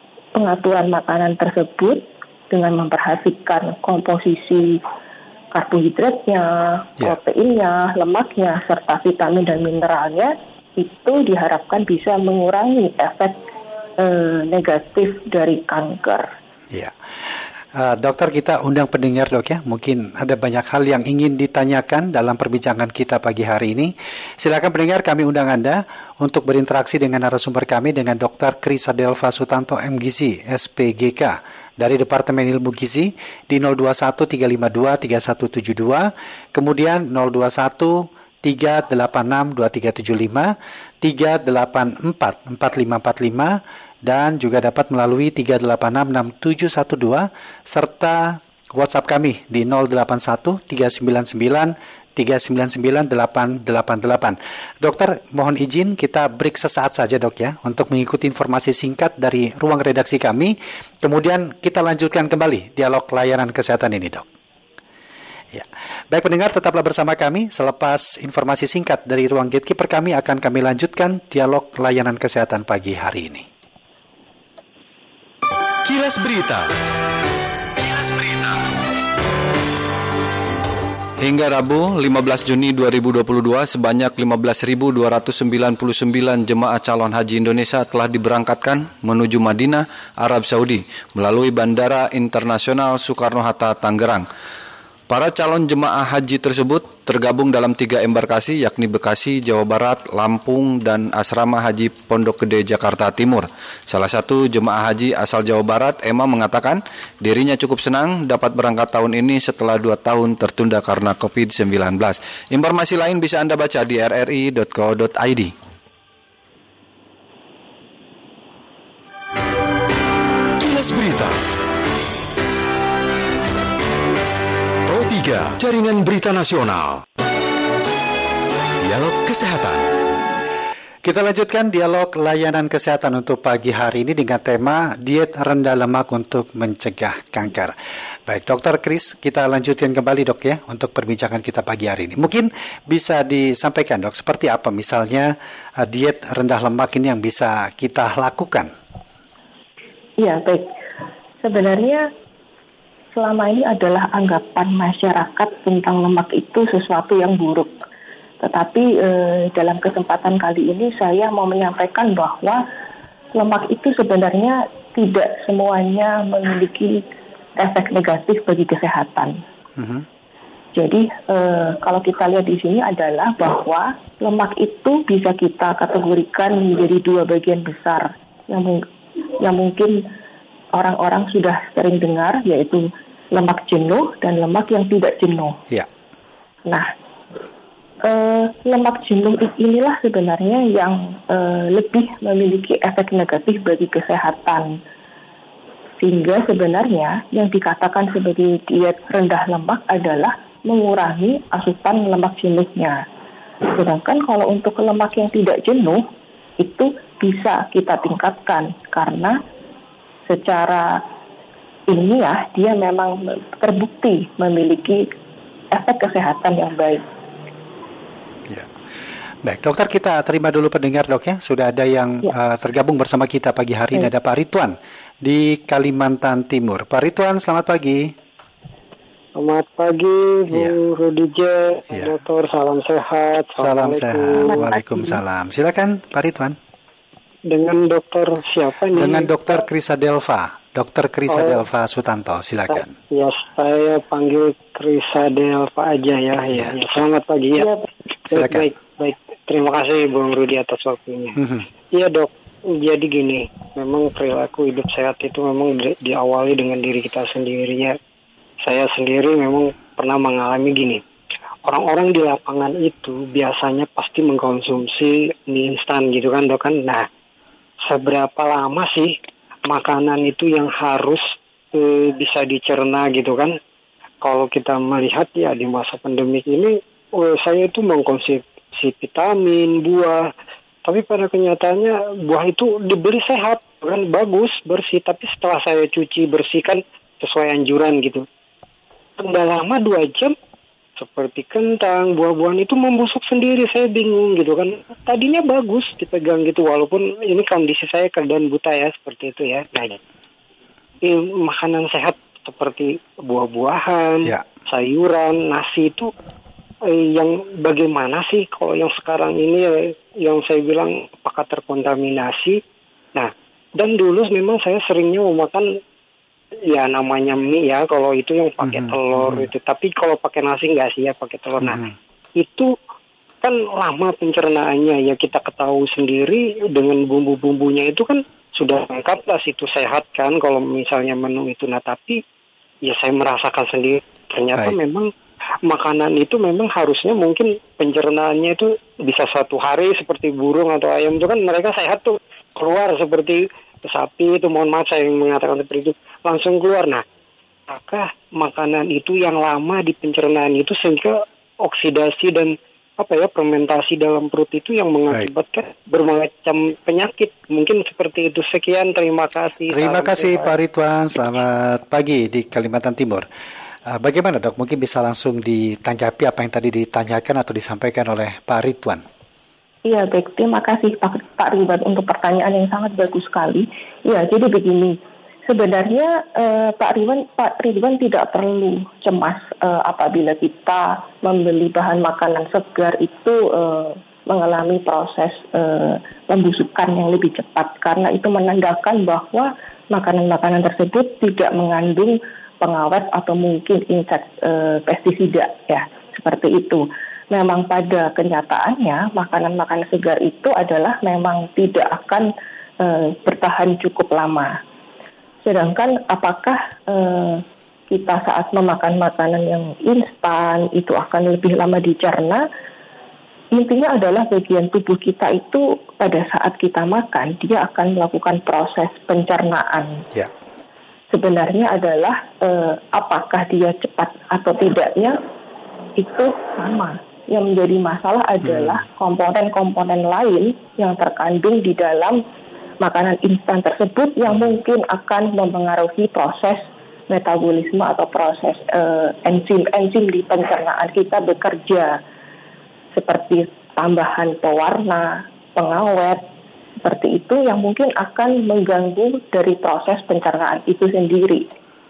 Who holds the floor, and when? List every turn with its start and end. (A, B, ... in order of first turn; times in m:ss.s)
0:00.3-0:04.8 A
0:05.5-0:13.4 A
0:14.0-0:16.3 A
0:17.8-0:43.5 B
0:44.0-1:04.2 B
1:05.5-1:13.4 B
1:15.8-1:16.7 C
1:17.8-1:18.6 C
1:21.2-1:34.2 D
1:35.1-1:55.5 D
2:00.6-2:01.4 C
2:04.8-2:07.0 C
2:08.8-2:09.9 C
2:11.0-2:17.7 B
2:18.3-2:28.7 B
2:30.2-2:30.7 A
2:31.4-2:32.1 A
2:33.1-2:37.7 A
2:38.4-2:42.6 A
2:43.3-2:47.0 A
2:47.6-2:49.4 A
2:49.8-2:50.0 B
2:50.7-3:00.0 A
3:00.7-3:05.6 A
3:08.0-3:14.8 A
3:16.0-3:23.0 A
3:23.7-3:26.0 A
3:26.6-3:29.4 A
3:30.3-3:31.0 A
3:31.9-3:35.0 A
3:35.7-3:37.0 A
3:39.4-3:48.1 B
3:49.4-3:54.5 E
3:50.5-3:50.8 B
3:53.6-3:56.6 B
3:57.5-3:59.3 E
3:58.9-4:02.9 B
4:01.3-4:01.6 E
4:02.7-4:07.7 E
4:08.3-4:11.4 E
4:08.3-4:08.7 B
4:11.9-4:17.9 E
4:18.6-4:21.0 E
4:21.6-4:27.0 E
4:27.9-4:29.1 E
4:29.7-4:31.2 E
4:31.7-4:33.5 E
4:34.2-4:40.2 E
4:40.8-4:48.2 E
4:49.2-4:50.3 E
4:51.0-5:00.0 E
5:01.0-5:06.1 E
5:06.9-5:12.6 E
5:13.1-5:15.6 E
5:16.7-5:21.8 E
5:18.7-5:19.4 B
5:21.6-5:21.9 B
5:22.4-5:22.7 E
5:23.4-5:32.2 E
5:32.8-5:35.1 E
5:35.6-5:47.0 E
5:47.7-6:00.5 E
5:59.7-6:03.2 B
6:03.9-6:09.0 B
6:09.8-6:15.0 A
6:15.5-6:42.3 A
6:42.8-6:44.6 A
6:45.4-6:52.4 A
6:53.5-7:00.0 A
7:01.1-7:05.2 A
7:06.0-7:12.2 A
7:12.8-7:22.0 A
7:22.9-7:26.2 A
7:26.8-7:31.4 A